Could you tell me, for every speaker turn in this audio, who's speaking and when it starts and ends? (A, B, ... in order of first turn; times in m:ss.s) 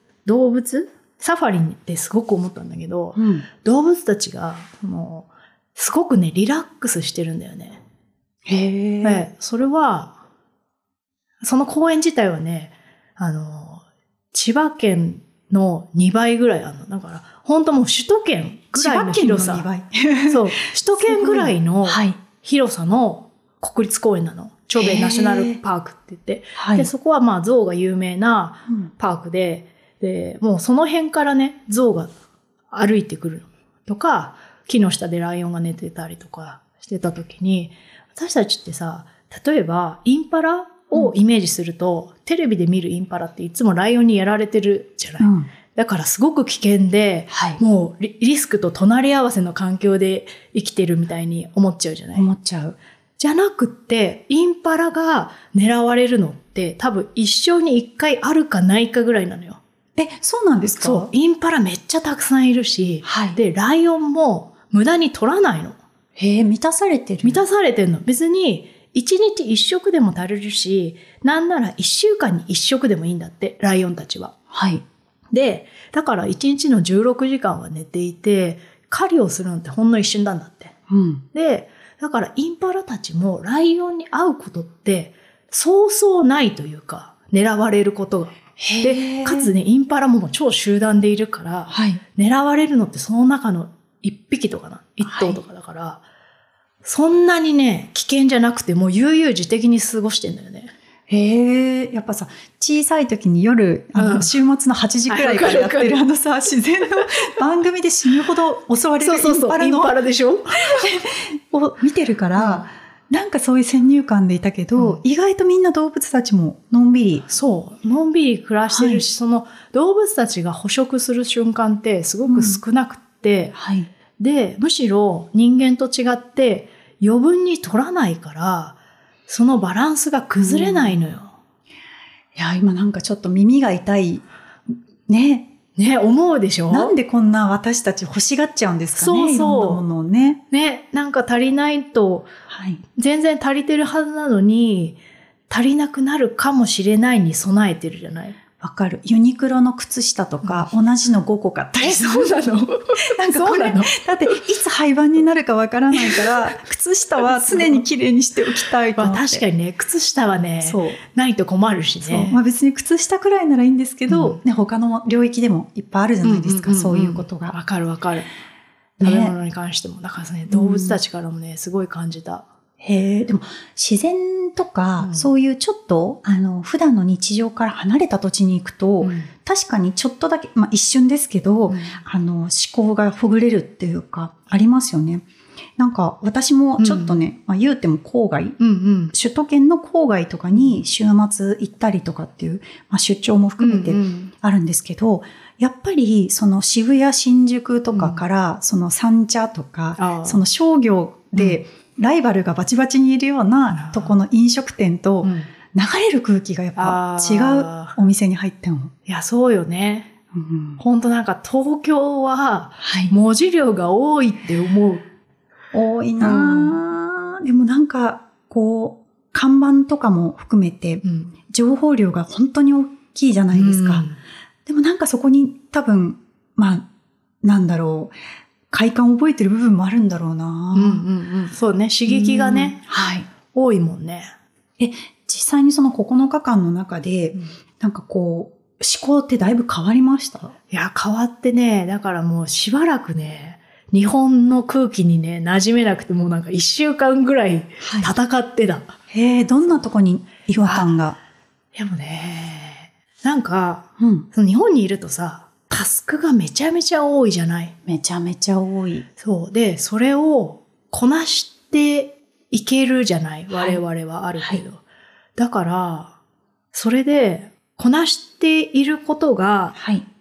0:00.2-0:07.8 A
0:03.2-0:03.5 B
0:08.5-0:09.3 B
0:09.0-0:10.2 A
0:11.4-0:19.7 A
0:18.8-0:22.2 B
0:20.3-0:32.1 A
0:24.8-0:25.6 B
0:26.6-0:26.9 B
0:32.7-0:52.3 A
0:45.2-0:45.5 B
0:47.3-0:47.6 B
0:52.2-0:52.8 B
0:53.2-0:59.6 A
1:00.0-1:01.1 B
1:00.8-1:05.8 A
1:03.0-1:03.4 B
1:06.2-1:07.4 B
1:07.2-1:14.4 A
1:14.5-1:14.8 B
1:15.3-1:20.8 A
1:20.9-1:21.2 B
1:21.3-1:36.0 A
1:28.6-1:29.5 B
1:31.7-1:32.0 B
1:35.0-1:35.4 B
1:36.8-1:40.7 A
1:41.1-1:50.0 B
1:44.0-1:44.3 A
1:45.1-1:46.0 A
1:49.0-1:50.9 A
1:50.6-1:57.2 B
1:52.4-1:52.7 A
1:57.3-2:03.6 A
1:58.7-1:59.0 B
2:02.3-2:02.6 B
2:03.6-2:03.9 B
2:04.2-2:08.8 A
2:09.3-2:11.4 A
2:10.4-2:11.0 B
2:12.4-2:14.2 B
2:15.1-2:15.5 B
2:15.8-2:16.9 A
2:16.7-2:20.4 B
2:19.0-2:19.8 A
2:20.5-2:22.3 A
2:22.5-2:22.8 B
2:23.0-2:25.0 A
2:25.5-2:28.4 A
2:28.6-2:32.4 B
2:30.4-2:30.7 A
2:31.8-2:34.0 A
2:33.1-2:39.4 B
2:35.9-2:36.4 A
2:37.2-2:37.8 A
2:39.0-2:42.4 A
2:40.6-2:41.0 B
2:42.0-2:47.6 B
2:44.1-2:44.4 A
2:46.2-2:48.3 A
2:49.0-2:49.4 B
2:49.0-2:52.5 A
2:50.5-2:51.0 B
2:52.8-3:05.2 B
2:55.0-2:55.3 A
2:59.0-2:59.3 A
3:01.7-3:02.0 A
3:05.8-3:08.6 B
3:06.8-3:07.2 A
3:08.6-3:09.1 A
3:09.1-3:28.9 B
3:10.5-3:10.8 A
3:13.6-3:14.3 A
3:17.9-3:18.2 A
3:20.0-3:20.4 A
3:21.4-3:21.6 A
3:23.7-3:24.2 A
3:25.2-3:25.5 A
3:26.8-3:28.0 A
3:29.1-3:30.1 A
3:30.3-3:30.8 B
3:30.8-3:35.0 A
3:32.8-3:33.1 B
3:35.7-3:44.1 B
3:36.2-3:36.8 A
3:41.0-3:41.3 A
3:43.5-3:44.2 A
3:44.7-3:46.9 B
3:47.4-3:48.2 B
3:48.7-3:51.0 B
3:50.7-3:52.8 A
3:52.1-3:53.3 B
3:53.5-3:54.3 A
3:54.8-4:00.6 B
4:00.7-4:09.0 A
4:07.8-4:08.1 B
4:09.1-4:11.2 B
4:10.6-4:10.9 A
4:11.7-4:17.8 A
4:14.0-4:14.3 B
4:17.9-4:19.1 B
4:19.2-4:24.8 A
4:23.5-4:23.8 B
4:25.4-4:26.2 A
4:26.7-4:29.8 A
4:29.8-4:30.0 B